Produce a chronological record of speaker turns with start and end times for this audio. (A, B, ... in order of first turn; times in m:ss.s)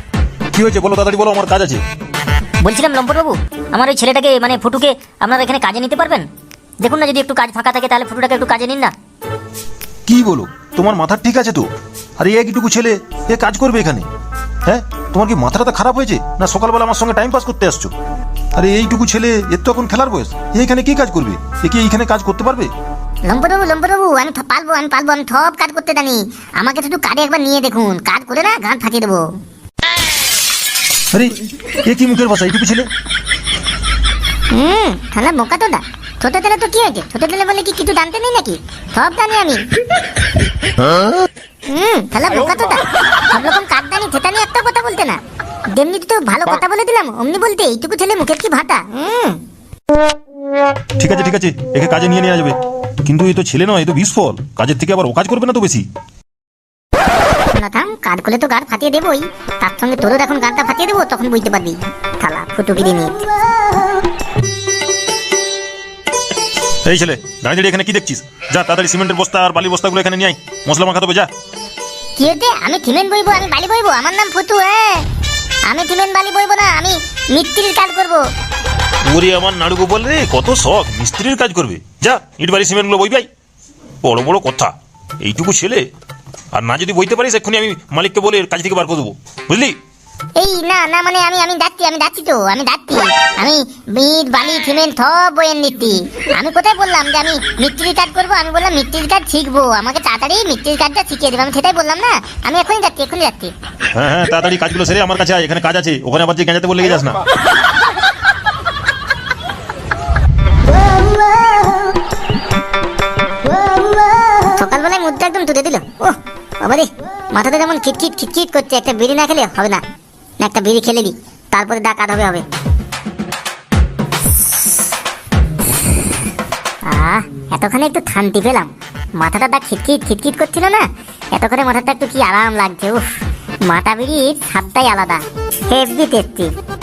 0:00.5-0:01.8 A
0:02.6-0:06.3 B
0:06.8-0:08.9 B
0:10.0-0:14.1 A
0:14.6-0:17.9 A
0:18.5-0:22.7 A
0:23.3-0:29.3 C
0:31.1-0:32.9 A
0:34.5-0:39.6 C
0:41.7-0:45.2 C
0:45.7-0:49.4 C
0:51.0-0:55.8 A
0:57.5-1:03.3 C
1:06.8-1:11.3 A
1:12.2-1:15.0 C
1:15.7-1:18.2 C
1:19.0-1:23.3 A
1:24.0-1:25.9 A
1:26.5-1:29.8 A
1:30.4-1:43.5 C
1:43.9-1:47.2 A
1:54.4-1:59.8 C
2:00.4-2:02.4 C
2:06.8-2:16.5 C